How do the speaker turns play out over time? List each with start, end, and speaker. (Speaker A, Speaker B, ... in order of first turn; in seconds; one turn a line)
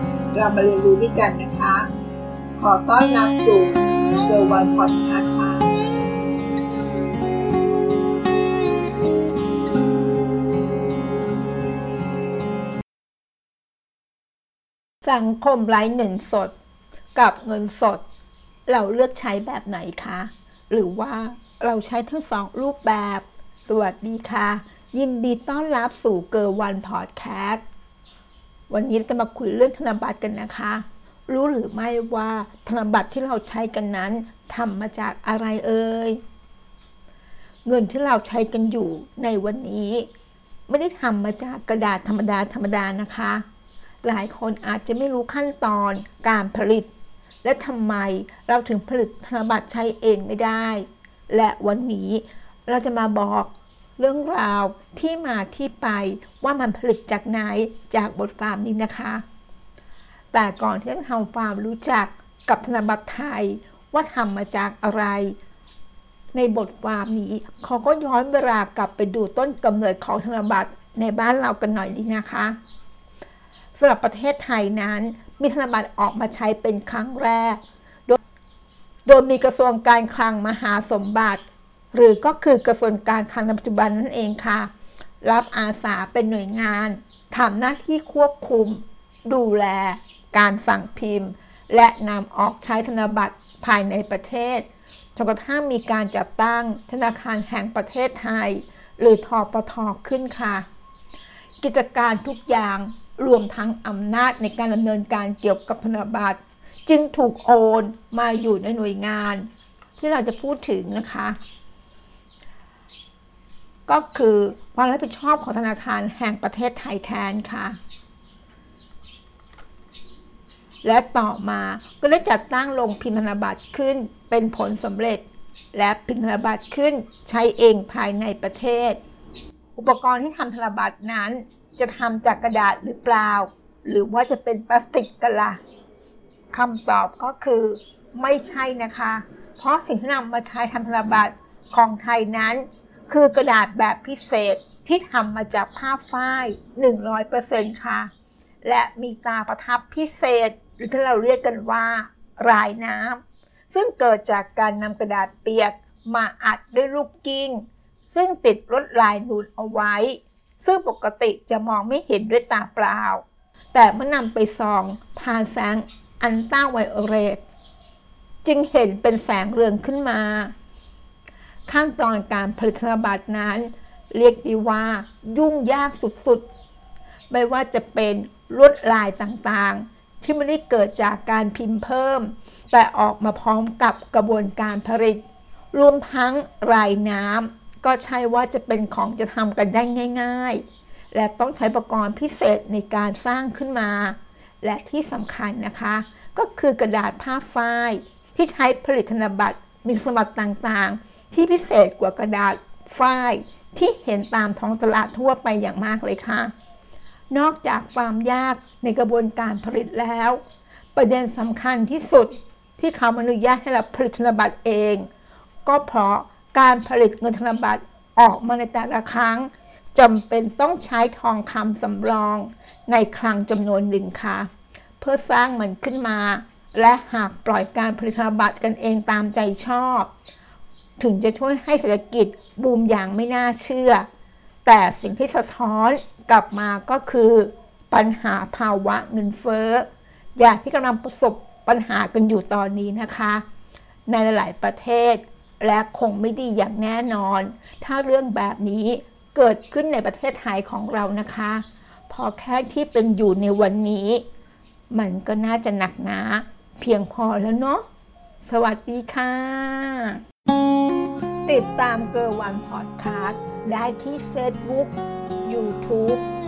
Speaker A: 0.3-1.9
Speaker A: 2.6-5.7
Speaker A: 15.0-16.5
Speaker A: 17.1-18.0
Speaker A: 18.7-27.6
Speaker A: 28.7-36.2
Speaker A: 37.6-40.1
Speaker A: 40.7-43.4
Speaker A: 44.0-46.9
Speaker A: 47.4-59.2
Speaker A: 60.3-65.3
Speaker A: 66.3-72.5
Speaker A: 73.8-78.2
Speaker A: 79.0-84.7
Speaker A: 85.2-100.7
Speaker A: 101.6-111.4
Speaker A: 113.9-117.8
Speaker A: 120.8-129.0
Speaker A: 129.8-135.6
Speaker A: 136.5-148.1
Speaker A: 148.6-153.2
Speaker A: 153.7-167.4
Speaker A: 168.4-170.5
Speaker A: 171.7-176.4
Speaker A: 177.3-185.2
Speaker A: 185.7-206.5
Speaker A: 207.3-210.4
Speaker A: 210.9-215.1
Speaker A: 215.7-224.5
Speaker A: 225.0-230.1
Speaker A: 231.0-234.1
Speaker A: 234.6-243.4
Speaker A: 244.1-254.2
Speaker A: 254.9-257.8
Speaker A: 258.4-260.2
Speaker A: 261.4-266.2